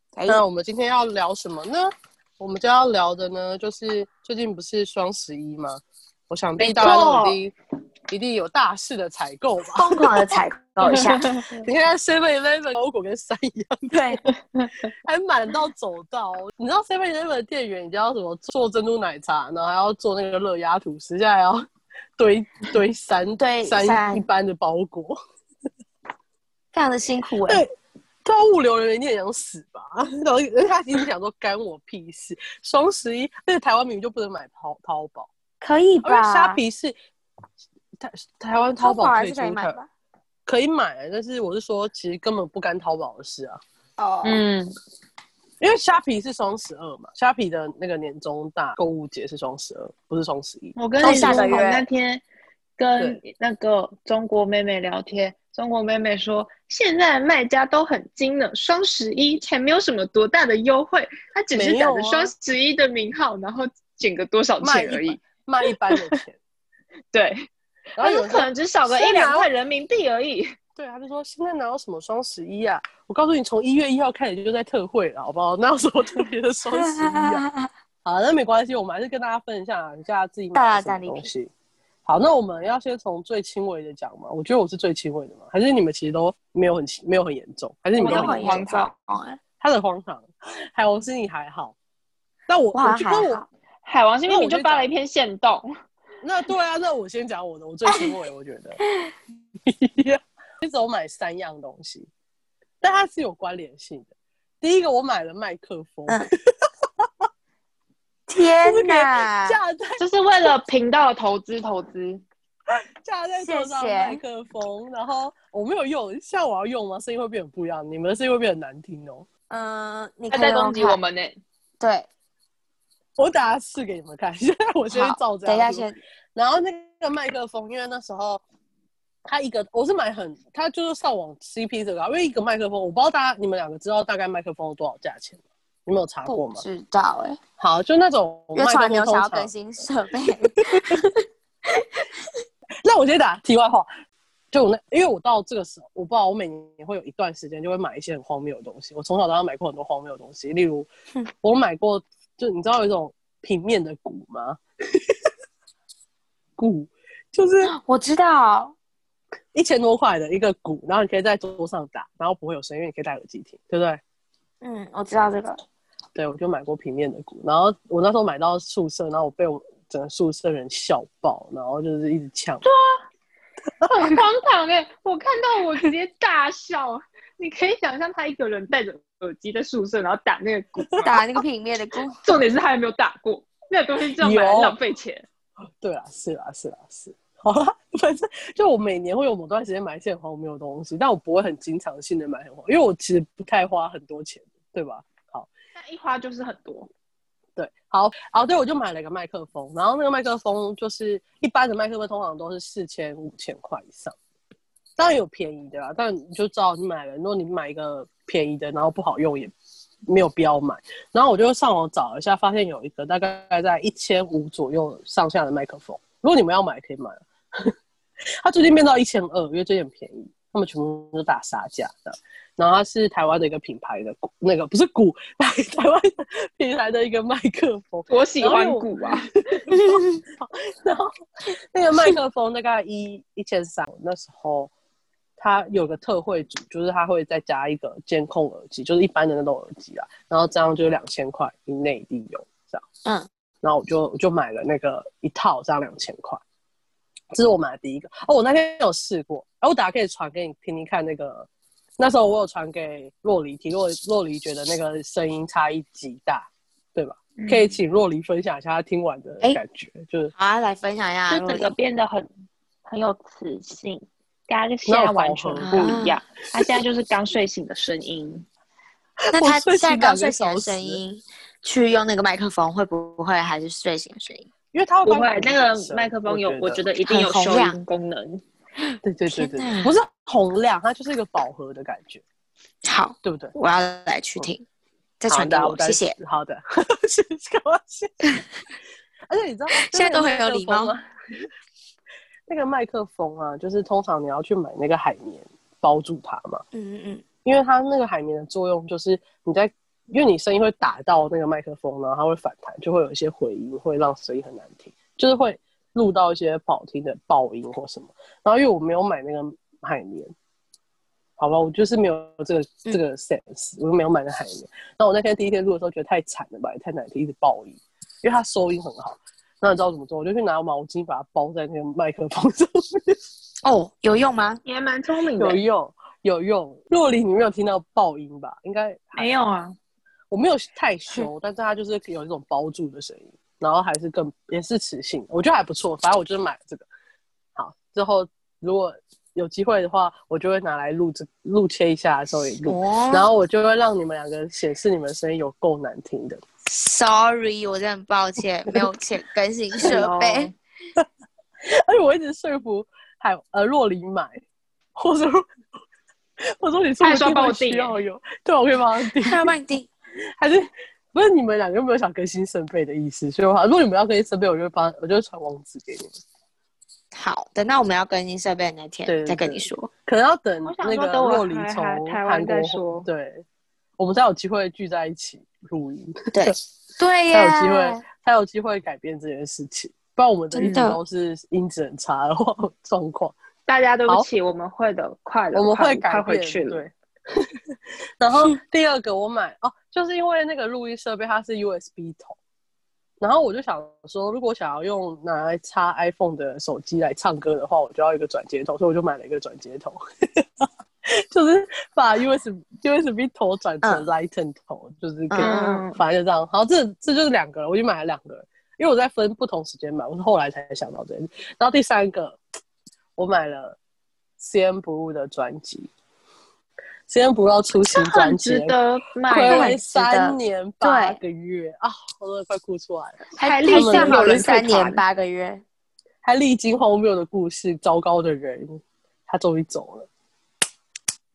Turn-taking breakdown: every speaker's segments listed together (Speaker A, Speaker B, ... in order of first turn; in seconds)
Speaker A: 0.1-0.4, 6.6-7.3, 9.7-11.4, 13.9-14.2, 23.4-24.2, 26.7-27.6, 35.6-36.6, 38.8-39.9, 44.0-44.4, 51.0-51.8, 76.7-77.7, 80.5-81.3, 88.0-89.4, 92.7-93.5, 97.9-98.1, 98.8-99.1, 108.3-109.6, 113.4-114.2, 119.5-121.0, 121.8-122.1, 124.9-126.0, 136.2-137.4, 138.5-141.2, 157.7-158.7, 164.6-165.6, 181.0-182.2, 229.7-230.2, 260.4-261.7, 265.6-266.2, 269.3-274.5, 277.1-277.8, 279.3-279.9, 282.8-284.6, 285.2-286.1, 289.7-290.9, 296.7-297.2, 323.6-324.6, 342.6-343.3, 346.6-350.5, 359.2-359.9, 367.1-369.9, 376.3-378.0, 380.5-381.0, 403.8-404.1, 405.3-405.8, 419.5-421.2, 423.4-425.6
Speaker B: 0.2-7.5, 8.1-10.1, 11.5-14.2, 14.8-21.6, 22.2-25.2, 28.2-35.3, 36.0-36.9, 38.0-39.8, 40.5-43.6, 45.6-51.6, 61.5-62.3, 64.6-66.4, 68.0-69.5, 70.8-77.4, 78.0-81.5, 82.0-88.5, 89.6-91.7, 92.5-93.4, 94.3-94.9, 96.2-98.8, 99.6-102.1, 102.8-104.1, 104.6-106.2, 107.0-107.3, 108.6-110.5, 113.0-119.2, 123.2-128.4, 129.2-136.6, 137.6-139.5, 142.8-143.9, 144.5-150.9, 151.4-155.2, 156.6-157.7, 159.5-164.0, 166.1-172.6, 184.2-184.8, 185.8-195.5, 197.6-204.2, 205.0-209.5, 210.1-217.7, 218.4-234.7, 235.4-242.8, 243.6-246.4, 247.3-251.5, 252.0-260.3, 264.9-266.0, 269.2-271.0, 274.7-276.8, 279.0-282.2, 283.2-283.5, 285.3-288.4, 289.3-291.4, 292.5-296.6, 297.4-310.3, 311.4-323.2, 325.4-329.3, 330.3-336.9, 337.6-346.4, 351.7-354.4, 354.9-355.5, 356.4-359.5, 360.4-366.2, 369.1-373.4, 374.0-376.6, 377.3-383.3, 385.5-392.4, 393.2-412.4, 413.2-413.8, 414.4-415.9, 417.1-424.5, 426.2-430.1
Speaker C: 6.8-7.2, 10.8-11.6, 44.2-44.7, 50.8-52.2, 52.8-66.2, 67.1-67.5, 68.0-70.5, 88.0-88.9, 93.8-95.7, 110.0-112.2, 120.3-121.4, 172.6-173.0, 173.9-181.2, 182.2-185.2, 195.8-196.9, 228.1-229.3, 257.4-257.8, 261.3-262.3, 262.9-268.4, 275.1-278.4, 324.6-325.6, 329.1-329.8, 349.8-350.5, 357.0-358.0, 370.6-373.1, 380.6-380.8, 383.7-386.8, 405.4-406.0, 417.8-419.7, 423.4-425.0